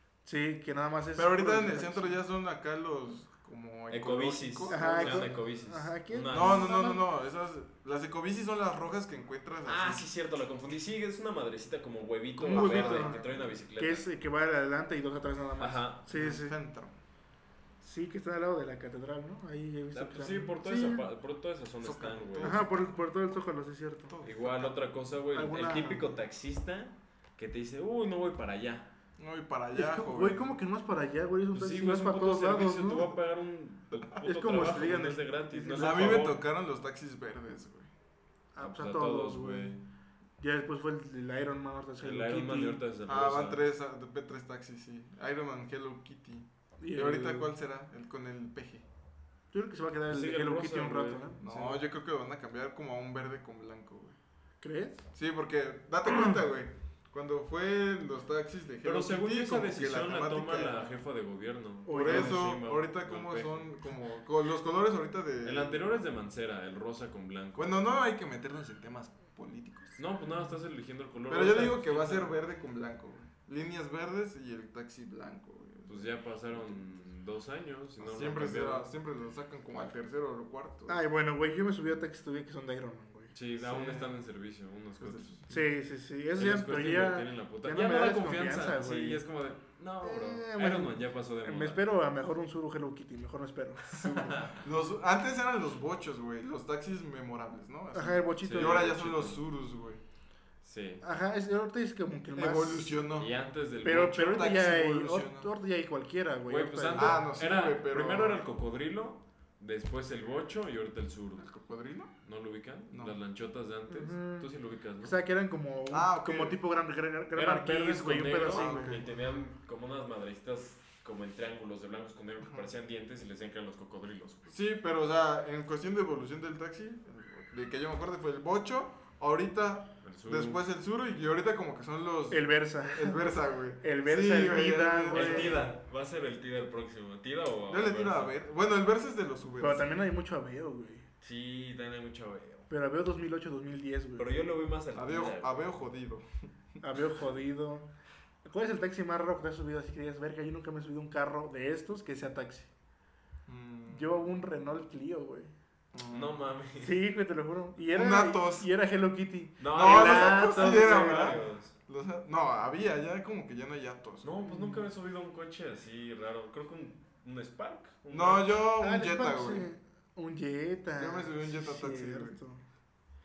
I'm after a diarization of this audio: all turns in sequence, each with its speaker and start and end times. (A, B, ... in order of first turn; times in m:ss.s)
0:00.2-0:02.2 A
0:01.1-0:05.3 B
0:03.9-0:06.8 C
0:04.7-0:07.0 A
0:06.3-0:10.0 B
0:09.6-0:14.1 C
0:12.4-0:13.2 A
0:12.5-0:13.5 B
0:13.8-0:16.6 A
0:15.6-0:16.0 C
0:16.1-0:17.0 B
0:17.8-0:21.0 A
0:19.9-0:22.6 C
0:21.8-0:22.8 B
0:22.4-0:24.1 A
0:24.1-0:24.8 B
0:24.2-0:28.9 C
0:25.3-0:26.0 A
0:29.2-0:30.5 B
0:29.7-0:33.1 A
0:31.5-0:36.4 C
0:34.2-0:36.3 A
0:35.7-0:37.9 B
0:38.5-0:39.7 A
0:38.6-0:39.8 C
0:40.4-0:42.8 A
0:42.0-0:43.6 C
0:43.0-0:48.8 B
0:46.8-0:47.5 A
0:49.5-0:51.8 A
0:50.1-0:51.5 C
0:51.4-0:54.2 B
0:54.6-0:55.0 A
0:55.1-1:01.0 B
0:58.8-1:03.7 C
1:01.8-1:02.4 A
1:01.9-1:05.9 B
1:05.4-1:07.7 C
1:07.6-1:10.0 B
1:10.0-1:12.4 C
1:11.3-1:16.8 B
1:15.9-1:18.9 C
1:18.0-1:21.0 B
1:20.9-1:23.3 A
1:23.3-1:25.4 C
1:23.6-1:24.1 B
1:25.0-1:25.6 B
1:25.5-1:29.2 A
1:26.3-1:31.8 C
1:30.0-1:34.4 A
1:34.0-1:40.0 B
1:34.0-1:34.6 C
1:37.9-1:38.9 A
1:38.4-1:39.4 C
1:40.6-1:41.0 C
1:41.0-1:43.0 A
1:42.4-1:43.3 B
1:43.2-1:44.5 C
1:43.8-1:47.2 A
1:44.2-1:45.5 B
1:46.5-1:51.5 C
1:46.9-1:48.4 B
1:51.4-1:52.1 B
1:52.2-1:55.1 C
1:52.9-1:53.2 B
1:53.9-1:54.5 A
1:55.0-1:59.0 A
1:55.9-1:56.6 B
1:57.3-2:04.5 C
1:58.5-1:59.2 B
2:02.4-2:02.7 B
2:04.5-2:15.7 B
2:10.0-2:10.6 C
2:12.3-2:13.3 A
2:13.8-2:15.7 A
2:15.1-2:18.3 C
2:17.7-2:19.9 B
2:19.6-2:21.0 A
2:21.2-2:22.7 C
2:22.7-2:24.3 A
2:24.2-2:25.7 C
2:24.9-2:26.2 B
2:26.8-2:27.9 A
2:28.4-2:32.7 A
2:33.5-2:34.1 B
2:33.9-2:35.5 A
2:35.9-2:36.4 B
2:36.1-2:37.0 C
2:36.8-2:41.4 A
2:37.9-2:38.7 B
2:39.6-2:41.7 C
2:39.7-2:44.3 B
2:44.2-2:48.6 C
2:44.4-2:44.8 A
2:48.1-2:49.7 B
2:48.8-2:52.6 A
2:51.0-2:52.4 B